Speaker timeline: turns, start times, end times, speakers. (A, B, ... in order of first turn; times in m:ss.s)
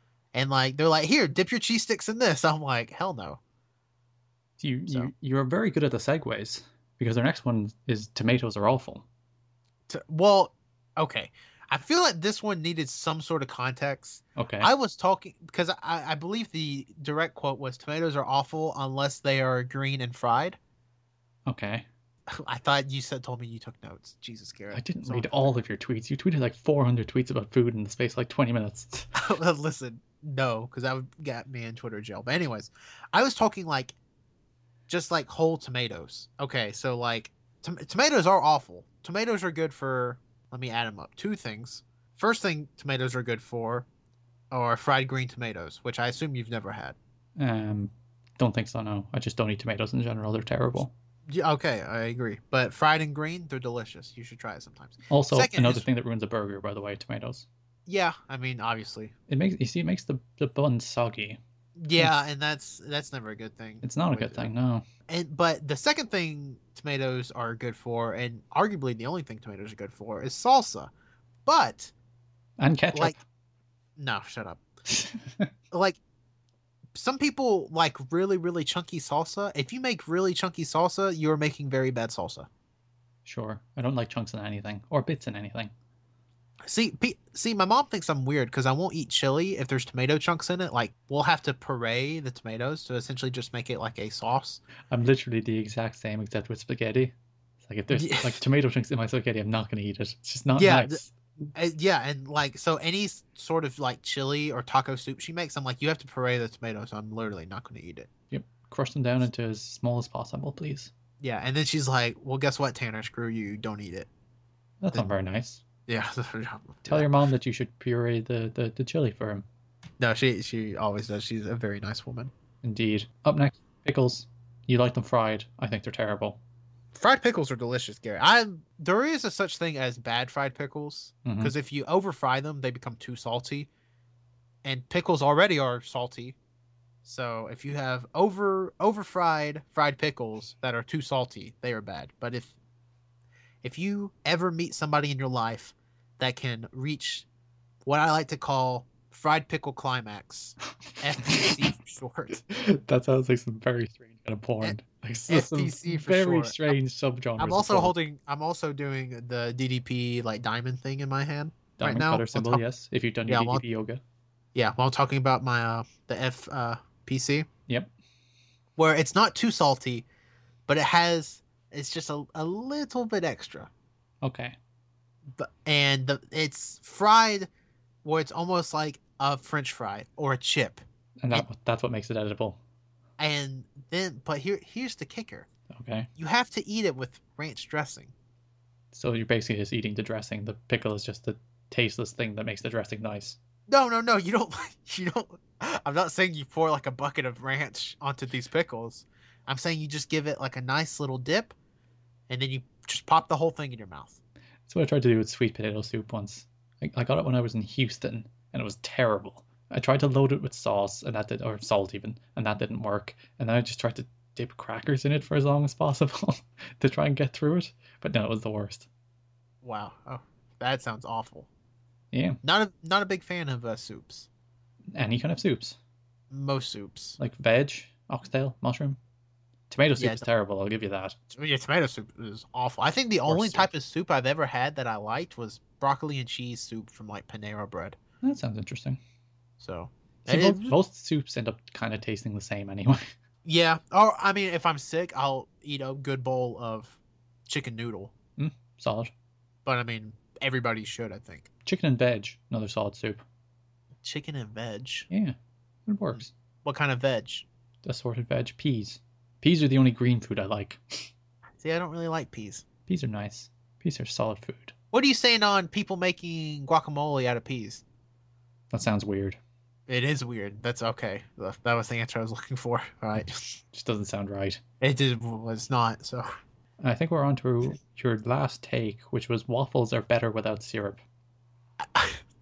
0:00.3-0:03.4 A
0:04.6-0:09.0 B
0:09.9-0:20.6 A
0:14.4-0:14.7 B
0:21.5-0:21.9 B
0:22.3-0:25.6 A
0:24.7-0:29.1 B
0:29.2-0:34.0 A
0:34.9-0:43.9 A
0:44.5-0:47.0 A
0:47.4-0:50.9 B
0:51.3-0:55.9 A
0:55.1-0:57.5 B
0:57.9-0:59.1 A
0:59.3-1:01.4 B
1:01.8-1:04.5 A
1:03.8-1:04.8 B
1:05.1-1:10.9 A
1:11.5-1:11.9 A
1:12.6-1:13.2 B
1:14.0-1:14.6 A
1:14.9-1:15.5 B
1:15.7-1:16.0 A
1:17.0-1:22.5 A
1:23.2-1:25.7 B
1:26.7-1:34.6 A
1:34.9-1:41.5 B
1:37.9-1:38.4 A
1:40.5-1:41.0 A
1:41.6-1:48.1 A
1:48.3-1:50.9 B
1:51.2-1:54.1 A
1:54.8-1:55.6 B
1:55.9-1:57.1 A
1:56.8-1:59.4 B
2:00.0-2:02.3 A
2:02.6-2:06.4 B
2:07.0-2:13.7 A
2:11.2-2:11.5 B
2:14.6-2:16.4 A
2:17.0-2:22.5 A
2:23.6-2:27.3 A
2:27.8-2:32.4 A
2:30.9-2:31.8 B
2:32.5-2:37.9 B
2:35.3-2:36.8 A
2:37.4-2:42.6 A
2:41.8-2:44.0 B
2:43.3-2:43.6 A
2:44.6-2:47.5 A
2:48.8-2:50.1 A
2:50.7-2:53.7 A
2:54.2-2:54.6 B
2:55.3-2:57.5 A
2:58.0-3:01.4 A
3:01.2-3:02.6 B
3:03.2-3:05.5 A
3:05.7-3:06.1 B
3:06.2-3:08.1 A
3:08.9-3:13.4 B
3:13.7-3:21.6 A
3:22.3-3:24.2 A
3:24.7-3:38.9 B
3:39.6-3:41.5 A
3:42.1-3:42.4 B
3:42.4-3:44.3 A
3:45.0-3:45.8 B
3:46.3-3:47.2 A
3:47.2-3:49.0 B
3:49.7-3:51.2 B
3:50.0-3:50.2 A
3:51.3-3:58.0 A
3:53.3-3:53.7 B
3:58.2-3:59.0 B
3:59.6-4:00.8 A
4:00.3-4:03.1 B
4:03.4-4:08.1 A
4:08.4-4:09.1 B
4:09.6-4:11.5 A
4:11.6-4:13.2 B
4:14.0-4:15.1 A
4:15.1-4:15.4 B
4:15.9-4:16.3 B
4:16.2-4:17.5 A
4:17.8-4:21.1 B
4:21.6-4:22.6 A
4:22.9-4:24.7 B
4:24.9-4:27.8 A
4:28.7-4:29.4 B
4:29.9-4:33.3 A
4:33.7-4:34.6 B
4:34.8-4:36.3 A
4:36.8-4:41.0 B
4:41.8-4:42.2 A